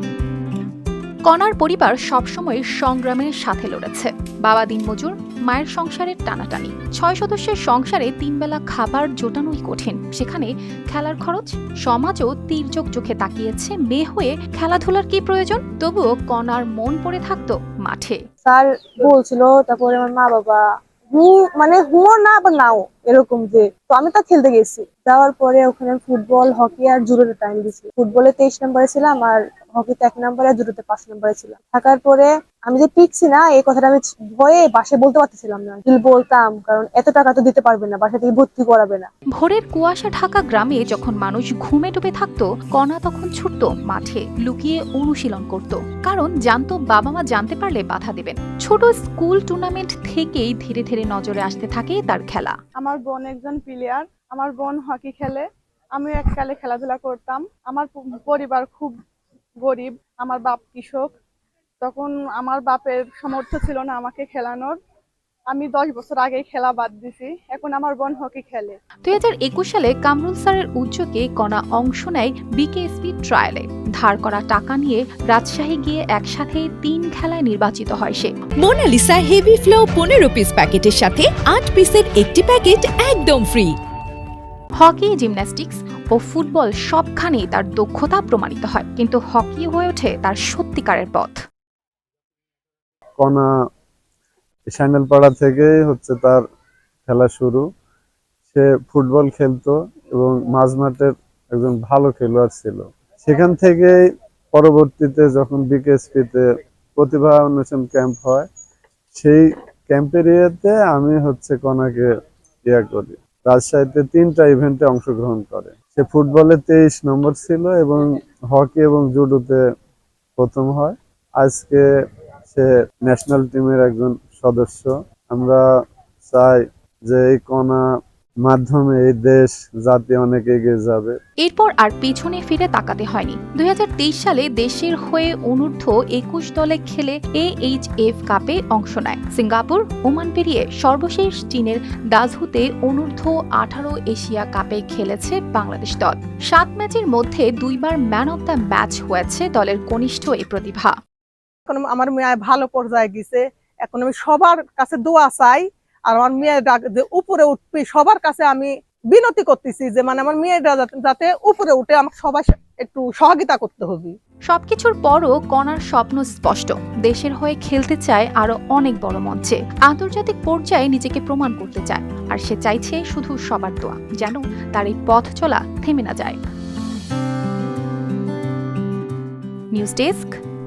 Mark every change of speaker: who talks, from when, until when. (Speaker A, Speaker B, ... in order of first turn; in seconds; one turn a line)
Speaker A: 1.2-18.2
Speaker B: 18.4-20.6
Speaker B: 21.1-39.1
Speaker A: 39.3-52.5
Speaker C: 52.8-55.4
Speaker C: 56.0-58.9
Speaker C: 59.6-61.1
Speaker C: 61.8-64.8
Speaker C: 65.5-68.8
Speaker A: 69.0-78.3
Speaker D: 78.6-83.8
Speaker A: 84.8-91.4
Speaker E: 93.2-93.5
Speaker E: 94.7-96.4
Speaker E: 97.1-97.7
Speaker E: 98.5-104.0
Speaker E: 104.5-108.5
Speaker E: 109.1-112.1
Speaker E: 112.6-119.6
Speaker E: 120.4-121.8
Speaker E: 122.5-125.6
Speaker E: 126.2-127.8
Speaker E: 128.4-131.2
Speaker A: 131.4-150.9
Speaker F: 151.7-164.2
Speaker A: 164.5-176.4
Speaker A: 179.7-180.3